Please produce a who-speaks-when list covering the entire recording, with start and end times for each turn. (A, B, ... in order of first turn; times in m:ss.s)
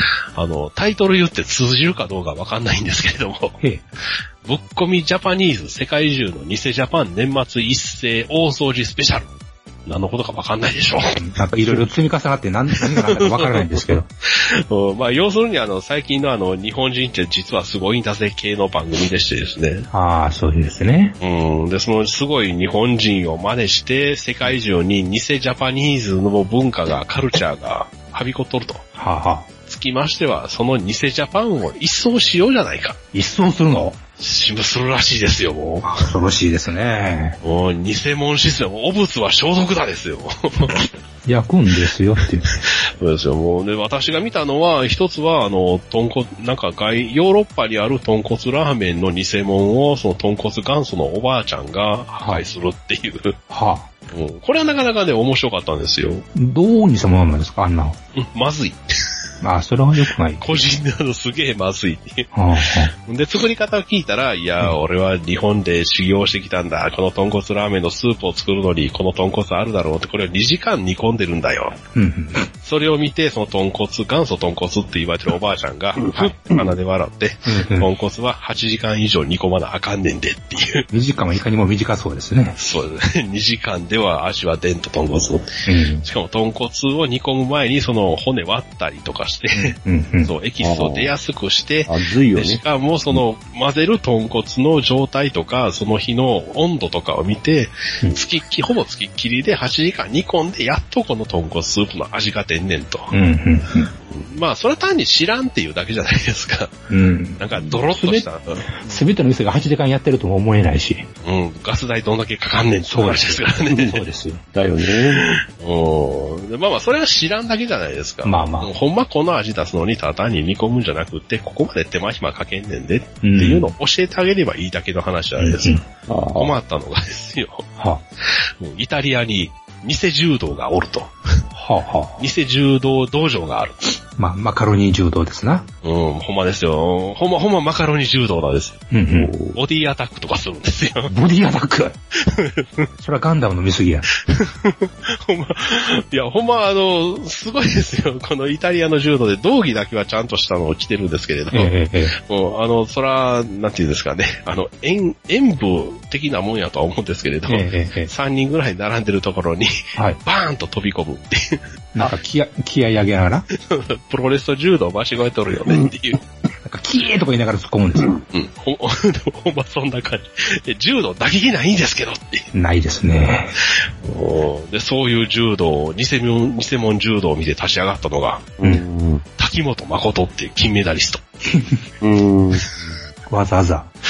0:00.4-0:03.6 A
0:04.4-0:09.3 A
0:09.9-0:11.8 A
0:11.2-0:14.1 B
0:12.8-0:13.7 A
0:14.3-0:19.9 A
0:19.9-0:21.1 B
0:21.2-0:28.8 A
0:29.0-0:29.5 B
0:29.7-0:33.0 A
0:33.1-0:34.0 B
0:34.2-0:36.0 A
0:35.8-0:37.4 B
0:37.4-0:40.9 A
0:41.3-0:42.5 B
0:42.6-0:53.4 A
0:52.2-0:52.4 B
0:53.5-0:53.9 B
0:54.1-0:56.2 A
0:56.3-0:58.0 B
0:58.2-0:58.8 A
0:59.4-1:00.5 B
1:00.4-1:02.3 A
1:02.3-1:02.9 B
1:03.1-1:11.8 A
1:11.9-1:12.5 B
1:12.6-1:20.8 A
1:16.1-1:16.6 B
1:17.5-1:17.9 B
1:20.9-1:22.6 B
1:22.6-1:25.5 A
1:25.6-1:26.0 B
1:26.0-1:43.1 A
1:29.5-1:30.3 B
1:30.6-1:31.1 C
1:31.9-1:32.6 C
1:43.1-1:43.9 B
1:44.1-1:46.7 A
1:46.9-1:48.2 B
1:47.4-1:48.7 A
1:48.8-1:51.1 B
1:51.2-1:54.0 A
1:52.9-1:54.4 B
1:54.5-1:55.2 C
1:55.2-2:05.8 A
1:58.2-1:58.7 B
2:03.2-2:03.7 B
2:05.4-2:05.8 B
2:06.1-2:06.5 C
2:06.4-2:07.6 A
2:07.8-2:08.0 B
2:08.6-2:11.1 A
2:11.5-2:12.2 B
2:12.2-2:14.0 A
2:14.2-2:15.7 B
2:15.8-2:18.8 A
2:18.9-2:19.3 B
2:19.1-2:19.5 C
2:19.5-2:21.1 A
2:21.1-2:22.0 B
2:22.2-2:22.9 A
2:23.0-2:24.1 B
2:24.3-2:31.7 A
2:31.5-2:32.2 B
2:32.3-2:39.7 A
2:37.5-2:38.1 B
2:40.2-2:41.6 A
2:41.9-2:43.4 B
2:43.6-2:46.2 A
2:46.6-2:48.1 B
2:48.3-2:52.4 A
2:52.5-2:53.5 B
2:54.0-2:58.6 A
2:58.6-2:59.2 C
2:59.4-3:01.2 A
3:01.5-3:01.8 B
3:02.0-3:02.6 C
3:03.3-3:03.9 B